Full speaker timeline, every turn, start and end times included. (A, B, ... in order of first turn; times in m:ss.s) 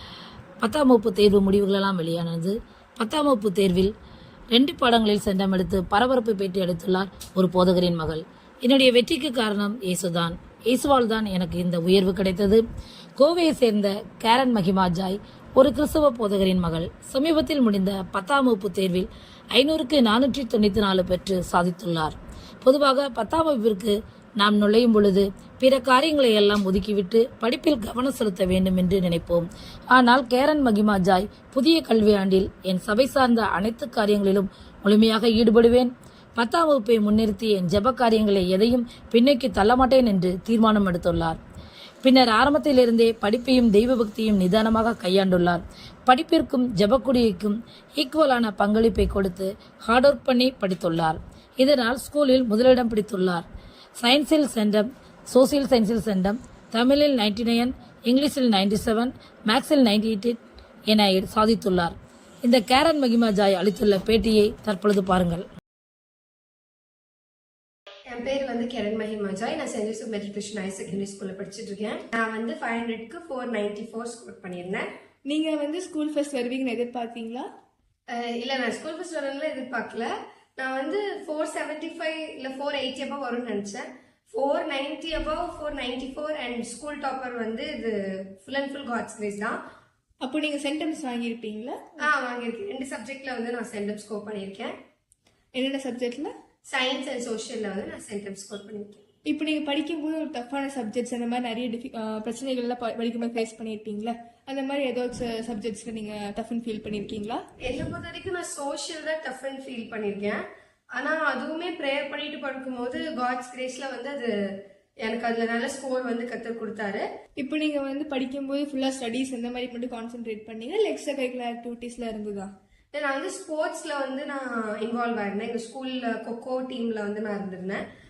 0:00.6-0:03.9 A
0:04.5-0:12.6 A
0:13.2-0:41.4 A
0:42.0-0:53.4 A
0:54.0-1:00.4 A
1:00.9-1:05.4 A
1:08.1-1:14.8 B
1:15.3-1:17.4 C
1:18.1-1:29.6 B
1:30.2-1:32.0 C
1:32.0-1:34.7 B
1:35.5-1:36.3 C
1:36.7-1:39.0 B
1:39.3-1:47.4 C
1:47.6-1:50.4 B
1:50.9-1:54.3 B
1:55.0-1:57.0 B
1:57.4-2:02.5 C
2:02.9-2:07.8 B